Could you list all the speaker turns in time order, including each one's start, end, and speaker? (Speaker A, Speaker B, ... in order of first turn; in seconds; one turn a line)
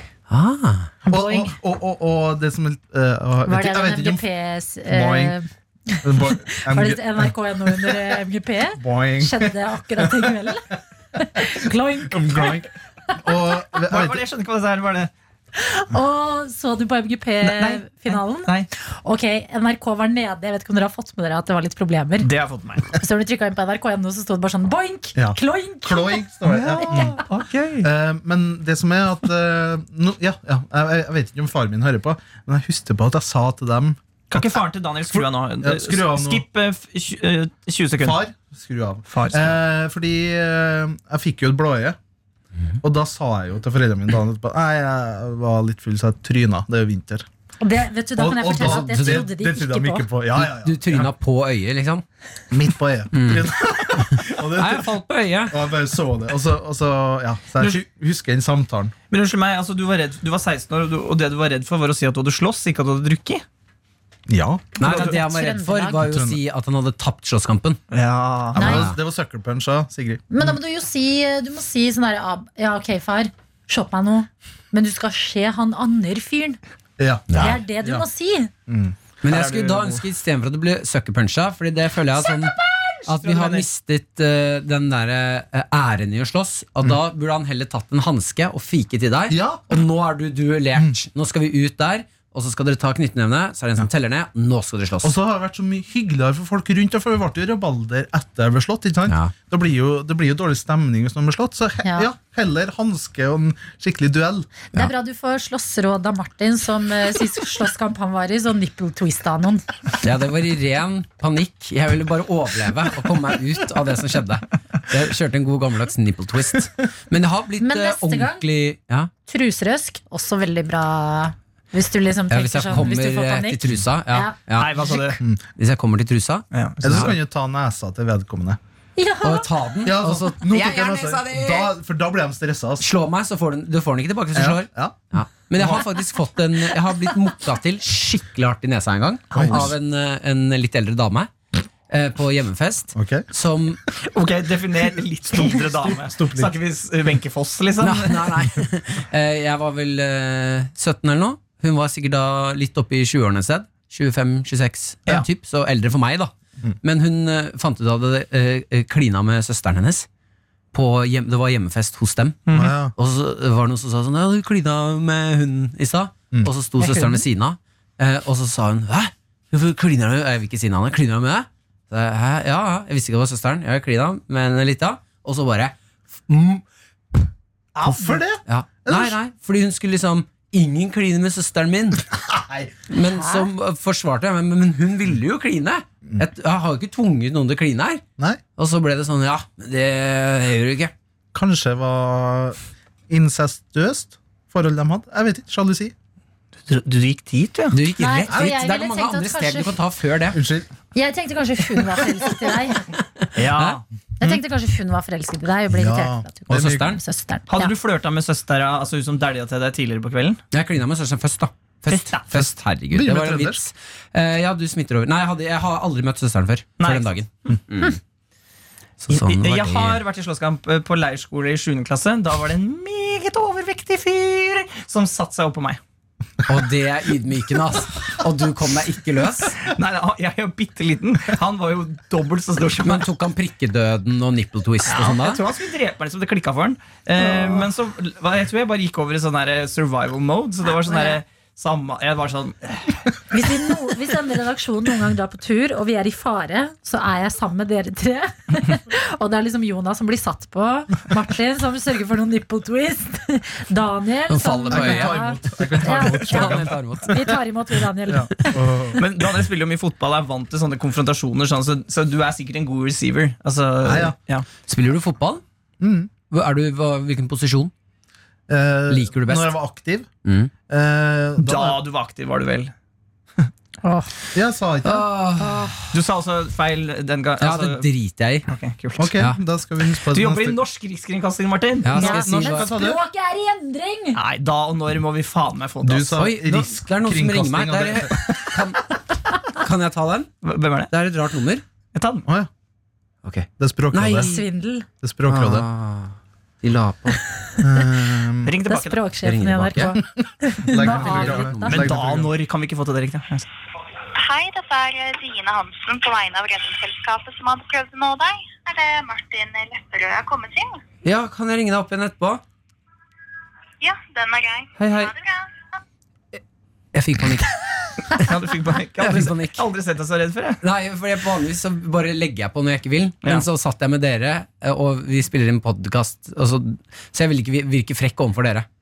Speaker A: 0.3-0.9
Speaker B: 1.0-4.2
Speaker C: 1.1-1.5
Speaker C: 3.4-12.6
Speaker B: 4.9-5.3
Speaker B: 6.0-8.0
Speaker B: 8.8-10.5
Speaker B: 11.4-14.2
Speaker D: 13.9-15.1
Speaker C: 15.6-22.3
Speaker D: 17.4-18.7
Speaker D: 22.2-22.9
Speaker C: 22.9-26.3
Speaker B: 25.1-27.2
Speaker D: 26.4-27.9
Speaker B: 27.8-36.4
Speaker D: 34.3-38.2
Speaker B: 38.0-42.0
Speaker D: 39.1-39.6
Speaker B: 42.8-47.3
Speaker C: 47.6-50.1
Speaker B: 48.1-51.1
Speaker A: 48.5-49.2
Speaker A: 50.4-52.0
Speaker B: 52.5-54.9
Speaker A: 53.1-55.5
Speaker B: 55.5-58.9
Speaker D: 59.1-63.4
Speaker B: 64.3-64.8
Speaker A: 64.8-67.8
Speaker D: 64.8-65.1
Speaker C: 64.8-66.0
Speaker B: 66.0-66.4
Speaker D: 67.9-68.7
Speaker B: 68.5-70.5
Speaker C: 68.6-68.8
Speaker A: 68.6-68.9
Speaker C: 70.3-76.6
Speaker B: 77.0-78.0
Speaker C: 77.3-78.5
Speaker B: 78.7-79.0
Speaker A: 79.2-95.1
Speaker D: 79.2-80.0
Speaker D: 82.2-83.7
Speaker B: 89.3-89.6
Speaker B: 95.0-104.5
Speaker C: 101.8-102.1
Speaker C: 104.7-109.6
Speaker A: 110.0-119.1
Speaker C: 117.6-118.4
Speaker C: 119.3-124.3
Speaker A: 122.3-127.1
Speaker D: 124.5-125.2
Speaker D: 126.5-127.1
Speaker B: 126.8-128.6
Speaker C: 129.0-129.5
Speaker A: 129.2-131.7
Speaker B: 129.8-132.8
Speaker A: 132.8-141.3
Speaker B: 134.3-135.0
Speaker B: 135.5-135.9
Speaker D: 139.3-139.7
Speaker B: 139.3-139.7
Speaker A: 141.9-143.8
Speaker B: 142.9-143.2
Speaker D: 144.1-148.3
Speaker B: 145.3-146.5
Speaker A: 147.8-160.1
Speaker A: 160.7-175.7
Speaker D: 162.5-162.7
Speaker B: 162.5-162.9
Speaker A: 176.3-176.6
Speaker B: 177.8-179.1
Speaker D: 177.8-178.1
Speaker A: 178.4-182.0
Speaker B: 182.1-182.7
Speaker A: 182.9-188.0
Speaker A: 188.6-190.9
Speaker B: 191.3-192.6
Speaker B: 193.1-195.9
Speaker D: 196.7-197.8
Speaker A: 197.7-200.4
Speaker C: 198.0-199.8
Speaker B: 200.3-200.7
Speaker C: 200.9-202.9
Speaker A: 203.2-203.8
Speaker D: 203.3-203.8
Speaker C: 204.2-207.7
Speaker B: 205.7-206.9
Speaker A: 206.5-207.0
Speaker D: 207.5-210.4
Speaker A: 210.5-218.0
Speaker D: 211.9-212.5
Speaker B: 212.9-213.6
Speaker D: 216.8-217.6
Speaker A: 219.0-220.0
Speaker D: 219.1-225.8
Speaker A: 226.4-229.6
Speaker D: 229.6-233.1
Speaker A: 232.8-235.4
Speaker D: 234.8-243.2
Speaker B: 237.2-237.7
Speaker C: 240.8-241.2
Speaker C: 243.3-258.6
Speaker A: 254.3-255.2
Speaker B: 254.7-257.3
Speaker A: 255.8-257.3
Speaker B: 258.1-259.0
Speaker D: 259.0-264.4
Speaker B: 263.8-264.1
Speaker A: 264.7-265.4
Speaker B: 265.8-266.1
Speaker A: 266.3-267.7
Speaker B: 268.5-270.1
Speaker A: 268.9-269.5
Speaker A: 270.2-270.5
Speaker B: 270.7-271.8
Speaker D: 271.4-272.7
Speaker C: 273.8-274.1
Speaker B: 274.3-275.1
Speaker A: 274.8-275.9
Speaker C: 275.4-275.7
Speaker D: 275.9-277.9
Speaker A: 277.4-278.5
Speaker D: 278.5-279.1
Speaker B: 279.0-280.6
Speaker D: 280.1-282.0
Speaker A: 281.8-282.7
Speaker B: 281.9-283.0
Speaker C: 282.0-284.2
Speaker D: 284.1-286.2
Speaker B: 285.8-288.3
Speaker A: 286.2-288.9
Speaker A: 289.4-290.3
Speaker D: 290.4-290.9
Speaker A: 290.9-291.6
Speaker D: 291.9-292.3
Speaker A: 293.2-294.4
Speaker B: 293.6-294.3
Speaker C: 294.1-294.9
Speaker B: 295.0-295.6
Speaker A: 295.3-297.2
Speaker B: 297.6-298.5
Speaker D: 298.4-299.0
Speaker C: 298.6-301.8
Speaker A: 299.2-299.9
Speaker B: 300.6-302.3
Speaker A: 300.8-301.9
Speaker D: 301.7-303.5
Speaker E: 304.1-310.8
Speaker A: 311.0-312.4
Speaker E: 313.8-315.5
Speaker A: 314.8-315.1
Speaker A: 316.9-318.2
Speaker D: 318.1-320.6
Speaker A: 319.0-319.6
Speaker A: 320.6-328.6